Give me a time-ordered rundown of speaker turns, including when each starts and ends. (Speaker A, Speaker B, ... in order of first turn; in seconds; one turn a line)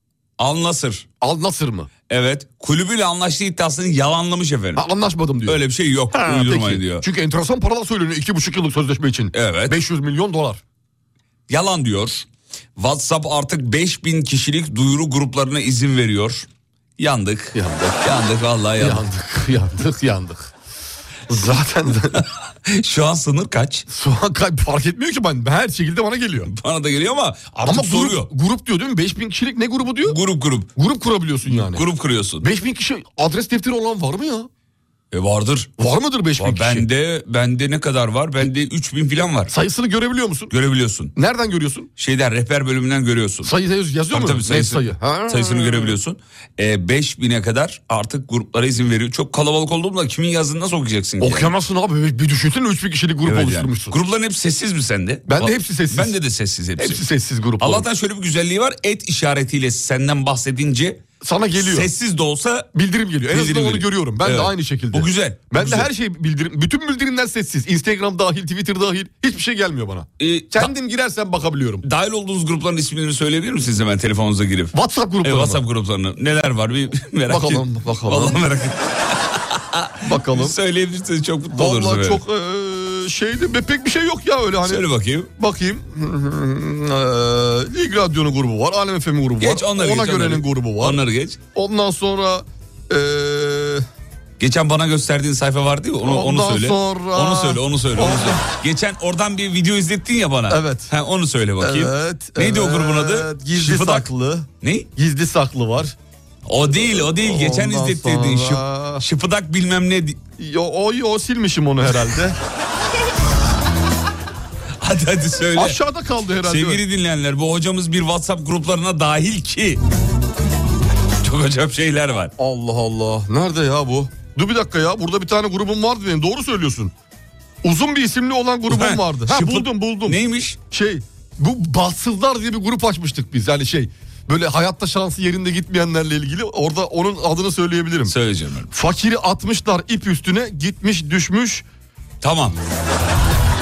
Speaker A: 0.4-1.1
Speaker B: 1.2-1.9
Speaker A: 2.1-4.8
Speaker B: 4.8-5.6
Speaker A: 5.4-7.0
Speaker B: 6.1-10.6
Speaker A: 9.3-9.8
Speaker A: 11.5-12.2
Speaker A: 12.8-16.5
Speaker A: 17.0-19.0
Speaker B: 17.5-18.0
Speaker B: 18.8-20.5
Speaker B: 21.3-22.2
Speaker A: 22.1-23.9
Speaker B: 23.9-26.5
Speaker A: 26.5-28.3
Speaker B: 27.6-30.2
Speaker A: 30.0-30.7
Speaker B: 30.8-31.8
Speaker A: 31.4-32.5
Speaker B: 32.4-34.5
Speaker A: 35.1-35.7
Speaker B: 35.8-36.9
Speaker A: 36.4-39.5
Speaker B: 39.5-40.5
Speaker A: 40.5-41.1
Speaker B: 41.1-41.9
Speaker A: 42.0-43.5
Speaker B: 43.4-45.9
Speaker A: 44.1-51.5
Speaker B: 51.2-54.0
Speaker A: 53.2-57.0
Speaker B: 55.3-56.1
Speaker B: 56.8-57.9
Speaker A: 57.6-61.0
Speaker B: 61.2-61.9
Speaker A: 61.6-62.7
Speaker B: 62.8-71.8
Speaker A: 63.3-65.9
Speaker A: 70.2-70.7
Speaker A: 71.8-82.2
Speaker B: 74.7-75.6
Speaker B: 77.3-78.4
Speaker B: 80.0-80.5
Speaker B: 81.5-84.8
Speaker A: 84.6-85.3
Speaker B: 85.4-91.0
Speaker A: 89.4-91.4
Speaker B: 91.5-93.8
Speaker A: 94.4-104.1
Speaker B: 96.0-98.4
Speaker B: 100.5-100.9
Speaker B: 101.6-105.9
Speaker A: 104.6-104.9
Speaker A: 106.5-110.2
Speaker B: 106.7-109.0
Speaker B: 110.4-112.4
Speaker A: 114.8-115.8
Speaker B: 115.5-116.8
Speaker A: 116.4-119.8
Speaker A: 121.2-122.3
Speaker B: 122.4-126.9
Speaker B: 127.6-130.2
Speaker A: 128.7-130.6
Speaker B: 130.7-138.1
Speaker A: 138.1-138.7
Speaker B: 138.7-141.6
Speaker A: 142.2-142.6